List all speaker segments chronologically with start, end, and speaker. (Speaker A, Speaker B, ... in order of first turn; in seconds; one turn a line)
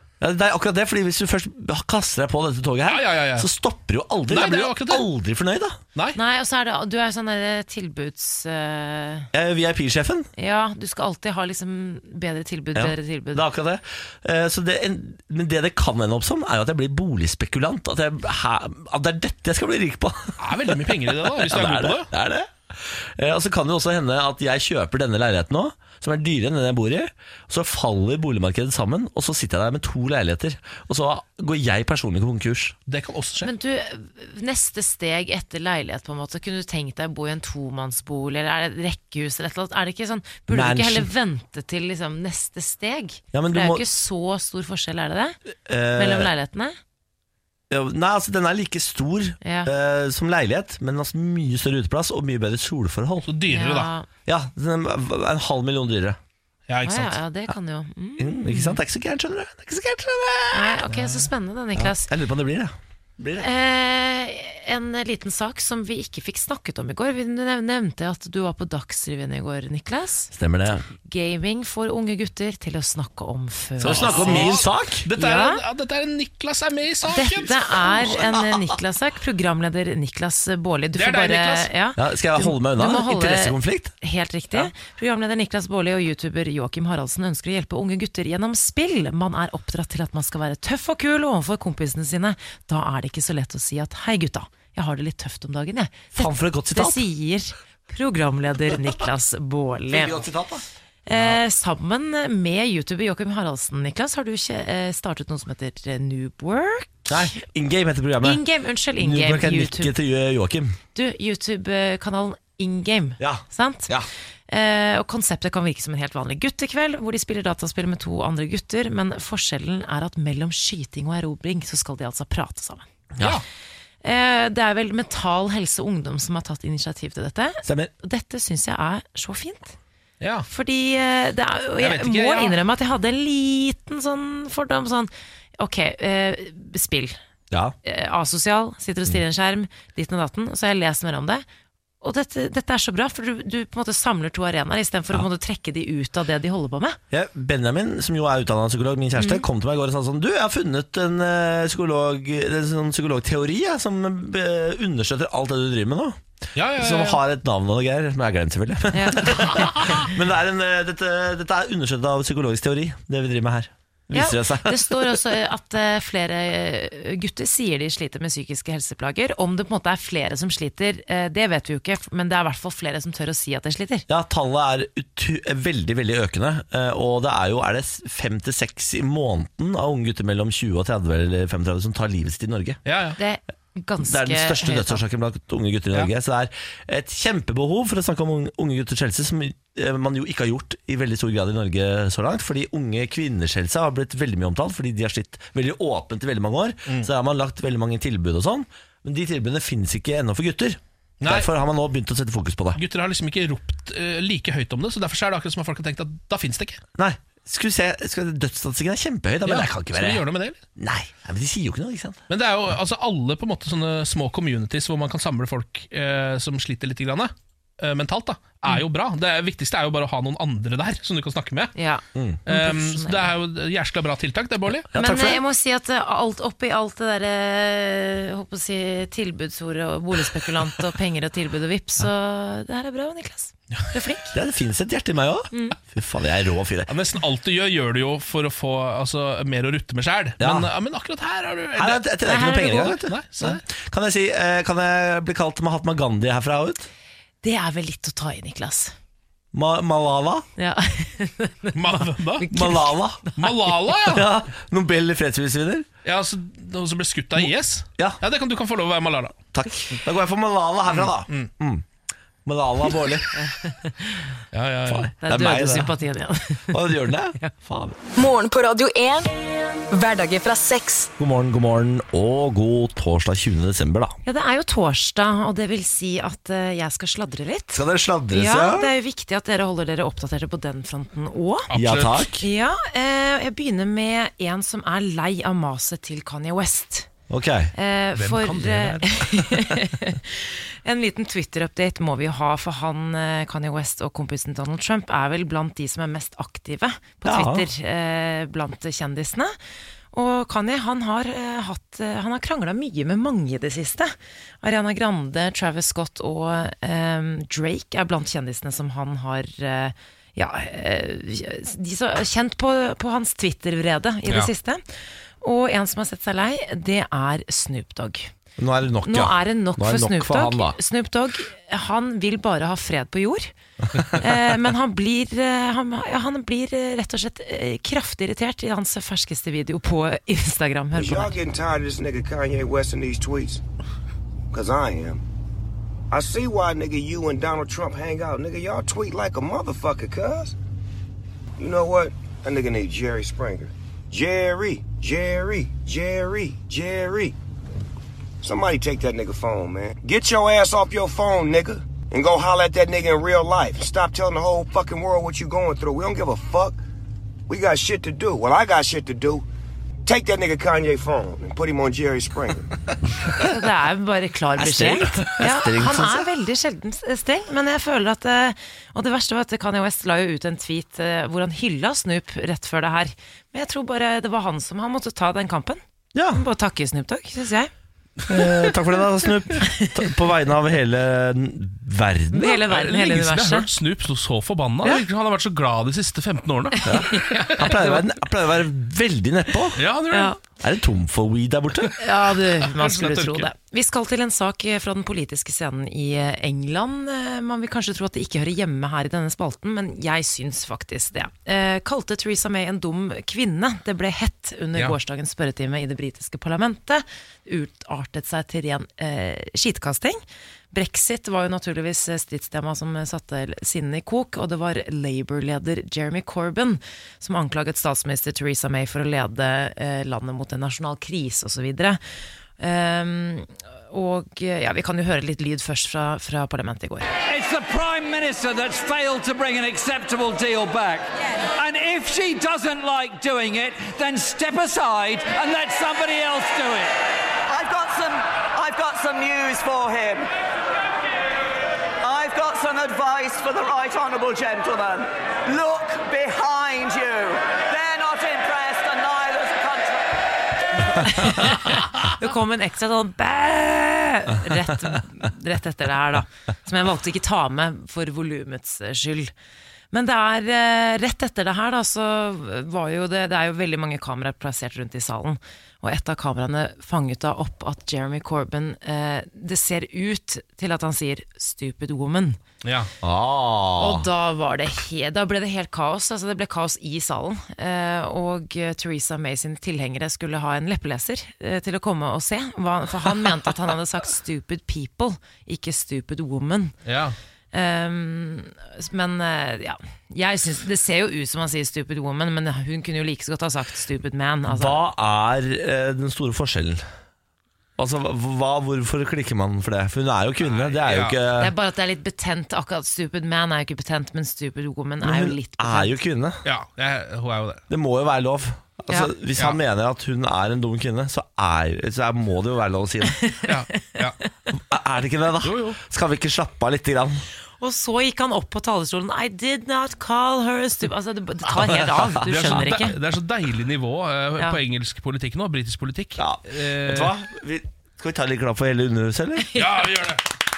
Speaker A: 0.2-5.8
Speaker B: 2.9-3.5
Speaker B: 4.3-5.1
Speaker C: 6.2-9.3
Speaker A: 9.3-10.3
Speaker C: 10.4-13.4
Speaker A: 12.8-32.8
Speaker B: 20.4-22.1
Speaker B: 32.9-33.5
Speaker C: 33.4-45.4
Speaker A: 40.5-41.1
Speaker A: 43.3-43.8
Speaker A: 45.6-46.3
Speaker C: 46.0-46.8
Speaker A: 47.7-53.3
Speaker C: 49.4-49.7
Speaker B: 53.2-53.9
Speaker C: 53.5-54.1
Speaker A: 54.2-56.2
Speaker B: 56.7-57.2
Speaker C: 56.8-58.8
Speaker A: 58.2-60.8
Speaker C: 60.5-62.1
Speaker B: 60.9-61.2
Speaker A: 61.8-63.5
Speaker C: 63.4-70.3
Speaker A: 70.3-70.9
Speaker C: 71.0-74.6
Speaker A: 73.8-75.1
Speaker B: 73.8-77.6
Speaker C: 75.2-75.6
Speaker C: 77.1-100.2
Speaker A: 77.8-78.6
Speaker B: 81.0-81.7
Speaker A: 82.0-83.9
Speaker A: 96.1-97.0
Speaker A: 99.9-100.7
Speaker C: 101.1-107.4
Speaker A: 107.1-108.4
Speaker C: 108.2-109.9
Speaker A: 109.0-110.8
Speaker C: 110.9-113.9
Speaker A: 113.2-114.1
Speaker C: 114.5-122.8
Speaker A: 123.2-123.4
Speaker C: 124.0-129.8
Speaker A: 127.6-127.9
Speaker B: 130.2-130.5
Speaker C: 130.5-137.2
Speaker B: 131.8-132.6
Speaker A: 137.5-137.8
Speaker C: 137.8-141.4
Speaker C: 142.0-147.0
Speaker A: 147.1-156.2
Speaker C: 149.2-149.4
Speaker B: 156.5-157.2
Speaker A: 156.8-165.2
Speaker C: 158.9-159.9
Speaker C: 164.1-174.0
Speaker A: 174.1-182.8
Speaker B: 182.8-183.2
Speaker C: 183.2-185.0
Speaker A: 184.0-202.8
Speaker B: 201.2-201.5
Speaker B: 202.8-206.8
Speaker A: 207.0-210.2
Speaker B: 209.5-210.6
Speaker A: 210.8-212.2
Speaker B: 212.3-221.7
Speaker C: 221.8-223.3
Speaker A: 222.2-222.4
Speaker B: 222.5-224.9
Speaker A: 224.9-225.4
Speaker C: 224.9-234.4
Speaker A: 234.3-236.9
Speaker C: 235.5-235.8
Speaker B: 236.9-242.0
Speaker A: 240.4-240.7
Speaker A: 241.8-246.9
Speaker C: 242.3-242.9
Speaker B: 242.6-243.6
Speaker C: 247.4-248.9
Speaker A: 249.5-250.5
Speaker C: 250.6-253.5
Speaker B: 251.8-252.5
Speaker A: 252.5-253.2
Speaker B: 253.4-254.3
Speaker A: 254.1-255.9
Speaker B: 256.0-259.4
Speaker A: 257.4-258.2
Speaker A: 259.5-261.9
Speaker B: 261.0-261.5
Speaker A: 262.5-263.3
Speaker C: 263.3-264.3
Speaker B: 264.5-265.1
Speaker A: 264.9-265.9
Speaker C: 265.2-267.5
Speaker A: 266.7-268.0
Speaker D: 268.2-269.3
Speaker D: 269.9-271.1
Speaker A: 271.2-274.2
Speaker C: 274.2-281.7
Speaker A: 277.7-278.9
Speaker B: 281.7-282.2
Speaker A: 281.7-282.4
Speaker C: 282.4-287.1
Speaker A: 287.3-287.7
Speaker C: 287.7-299.5
Speaker B: 288.2-289.1
Speaker A: 297.2-297.7
Speaker C: 300.1-314.8
Speaker C: 315.4-318.3
Speaker A: 318.6-320.8
Speaker C: 319.0-323.5
Speaker C: 324.1-331.4
Speaker E: 330.9-333.6
Speaker E: 334.5-335.2
Speaker E: 336.1-340.5
Speaker E: 341.6-347.4
Speaker E: 348.4-356.8
Speaker E: 357.5-359.4
Speaker E: 360.0-362.7
Speaker C: 363.4-375.8
Speaker A: 364.6-366.3
Speaker A: 376.1-376.4
Speaker C: 376.3-377.7
Speaker A: 378.3-382.7
Speaker C: 382.3-383.7
Speaker B: 382.5-387.8
Speaker C: 386.8-388.0
Speaker A: 386.9-389.8
Speaker B: 389.8-390.4
Speaker C: 390.1-390.4
Speaker A: 390.6-391.9
Speaker C: 392.0-422.0
Speaker B: 392.6-393.5
Speaker C: 422.6-427.1
Speaker F: 427.2-436.9
Speaker G: 437.5-440.3
Speaker G: 442.0-450.0
Speaker C: 450.9-459.3
Speaker C: 459.9-472.4
Speaker B: 472.6-472.9
Speaker A: 473.0-474.1
Speaker C: 473.8-486.8
Speaker B: 486.9-487.2
Speaker C: 487.5-494.8
Speaker A: 494.5-496.8
Speaker A: 497.8-501.5
Speaker B: 500.4-501.2
Speaker C: 501.4-506.0
Speaker A: 505.0-506.4
Speaker B: 506.4-507.6
Speaker A: 507.7-513.2
Speaker C: 513.2-513.5
Speaker B: 513.5-514.2
Speaker A: 514.6-517.2
Speaker B: 515.4-515.8
Speaker C: 517.6-523.0
Speaker A: 521.7-522.6
Speaker B: 522.2-527.1
Speaker A: 526.2-529.5
Speaker B: 529.5-530.2